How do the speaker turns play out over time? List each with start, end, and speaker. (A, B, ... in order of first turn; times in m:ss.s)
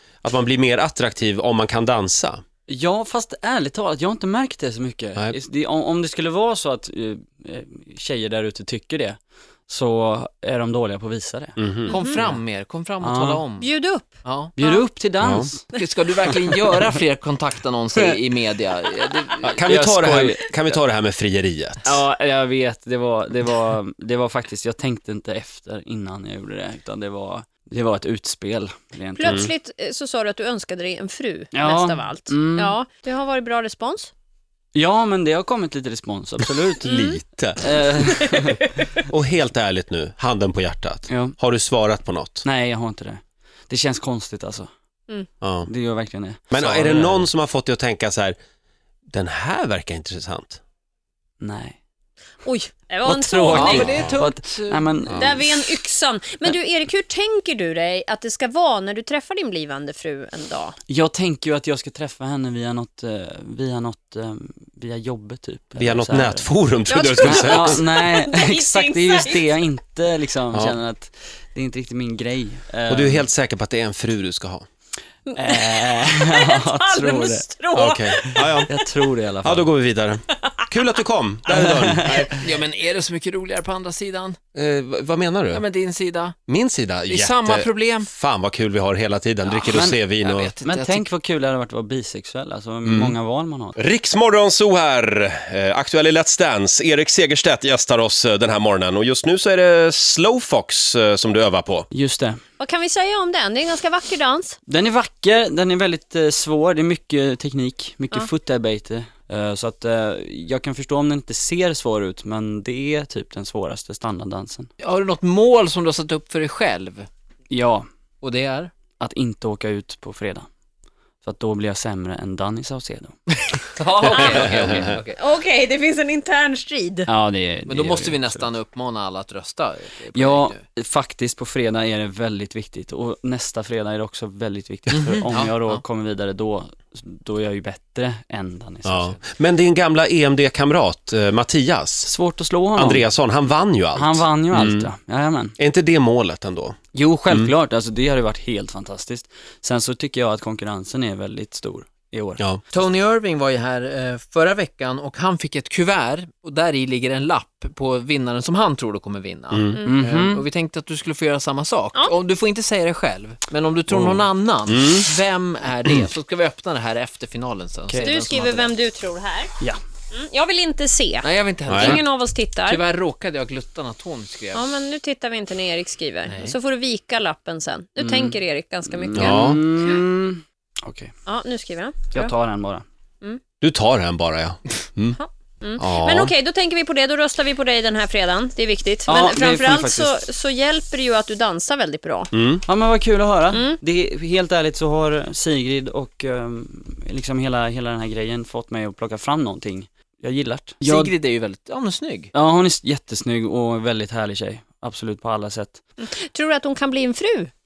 0:00.2-0:02.4 A
0:02.7-0:12.4 B
0:11.6-0:11.9 A
0:11.9-0:12.2 C
0:11.9-0:13.7 D
0:13.0-0:13.4 B
0:13.6-0:14.8 C
0:14.2-0:14.5 D
0:14.6-0:15.7 B
0:15.2-0:15.5 A
0:15.7-0:20.1 D
0:19.1-0:20.8 B
0:19.4-0:22.0 A
0:21.8-0:29.4 B
0:29.1-0:34.1 C
0:31.5-0:32.7 B
0:34.7-0:36.9 B
0:36.8-0:37.6 A
0:36.8-0:37.2 C
0:37.6-0:38.7 B
0:39.0-0:42.4 A
0:41.1-0:41.4 B
0:42.4-0:44.7 B
0:45.4-0:45.7 A
0:45.7-0:47.3 B
0:46.5-0:48.4 A
0:49.1-0:50.6 A
0:51.4-0:51.8 B
0:52.4-0:53.7 C
0:53.0-0:55.7 B
0:53.5-0:55.0 D
0:55.2-1:00.8 C
1:00.9-1:06.5 B
1:05.8-1:07.8 A
1:06.9-1:09.5 C
1:07.2-1:13.3 B
1:12.9-1:14.7 A
1:15.3-1:18.3 C
1:15.3-1:17.4 B
1:17.7-1:18.7 A
1:18.2-1:19.7 B
1:19.4-1:22.4 A
1:20.4-1:20.6 C
1:21.5-1:22.3 B
1:22.2-1:24.4 D
1:24.5-1:25.6 A
1:25.5-1:26.4 D
1:26.5-1:30.5 A
1:27.1-1:28.1 D
1:29.7-1:30.0 B
1:29.7-1:31.0 D
1:30.6-1:33.7 B
1:32.8-1:33.1 A
1:33.8-1:41.9 A
1:41.9-1:42.4 B
1:42.6-1:44.6 C
1:44.7-1:54.7 B
1:54.8-1:57.1 D
1:57.5-1:57.8 B
1:58.2-1:58.7 D
1:59.0-2:00.5 B
2:01.2-2:03.2 B
2:03.8-2:05.2 D
2:04.0-2:04.5 C
2:05.1-2:07.1 C
2:07.1-2:08.5 B
2:07.7-2:10.6 D
2:10.1-2:19.2 B
2:14.9-2:15.8 D
2:18.8-2:22.1 A
2:22.0-2:23.1 B
2:22.7-2:24.9 A
2:23.9-2:25.6 B
2:25.6-2:26.8 A
2:26.9-2:32.4 B
2:32.7-2:48.8 D
2:39.5-2:39.8 A
2:39.7-2:40.0 C
2:39.8-2:40.4 B
2:43.9-2:44.2 B
2:44.7-2:45.1 A
2:48.0-2:49.5 C
2:50.1-2:51.3 C
2:51.2-2:52.1 D
2:51.7-2:52.0 A
2:51.8-2:52.8 C
2:52.6-2:54.6 D
2:54.5-3:00.0 C
2:56.3-2:56.6 D
2:58.0-2:58.4 B
2:58.9-3:01.1 B
2:59.1-2:59.6 A
3:01.2-3:02.3 C
3:02.1-3:02.8 B
3:03.6-3:05.2 A
3:05.2-3:12.3 C
3:05.8-3:06.3 A
3:09.1-3:10.2 B
3:12.3-3:12.6 A
3:12.6-3:21.1 B
3:13.5-3:13.8 C
3:20.8-3:22.3 D
3:22.3-3:25.8 B
3:26.0-3:27.5 C